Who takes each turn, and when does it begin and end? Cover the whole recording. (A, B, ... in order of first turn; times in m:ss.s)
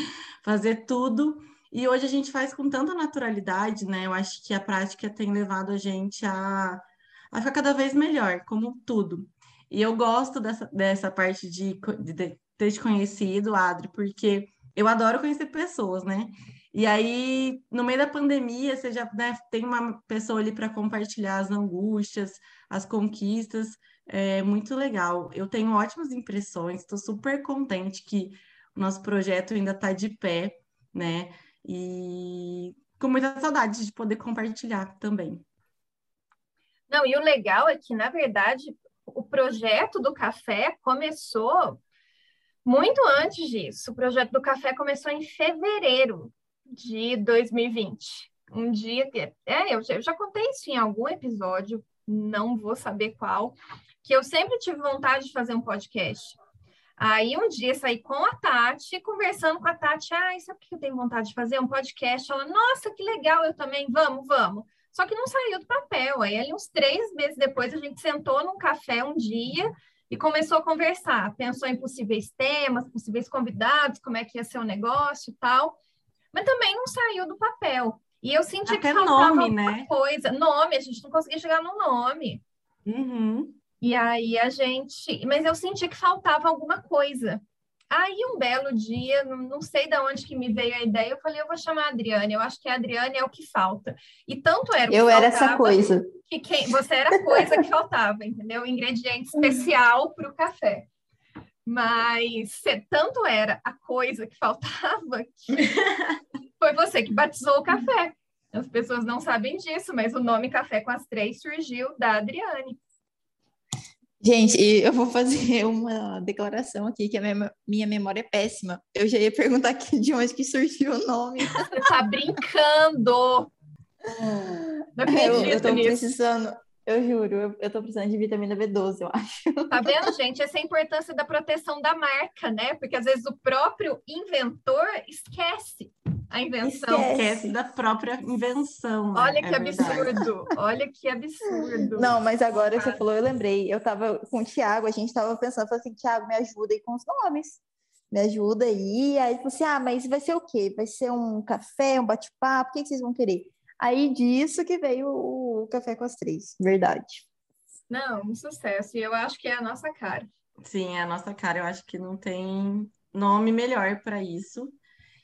0:00.4-0:35.4 A
0:36.9-0:41.8 B
0:42.6-0:56.4 B
0:57.0-1:15.8 B
1:16.3-1:22.4 B
1:18.7-1:19.9 A
1:22.9-1:23.6 A
1:23.8-1:40.9 B
1:34.9-1:36.1 C
1:37.3-1:37.6 C
1:41.7-1:45.7 B
1:46.6-1:52.8 B
1:54.2-2:01.9 C
2:01.7-2:03.5 B
2:04.1-2:10.1 C
2:05.0-2:06.0 B
2:09.7-2:17.1 B
2:16.6-2:17.5 C
2:16.7-2:20.2 A
2:19.2-2:22.2 B
2:19.8-2:20.1 C
2:21.9-2:37.3 C
2:22.8-2:23.0 B
2:37.9-2:40.3 B
2:40.6-2:44.8 A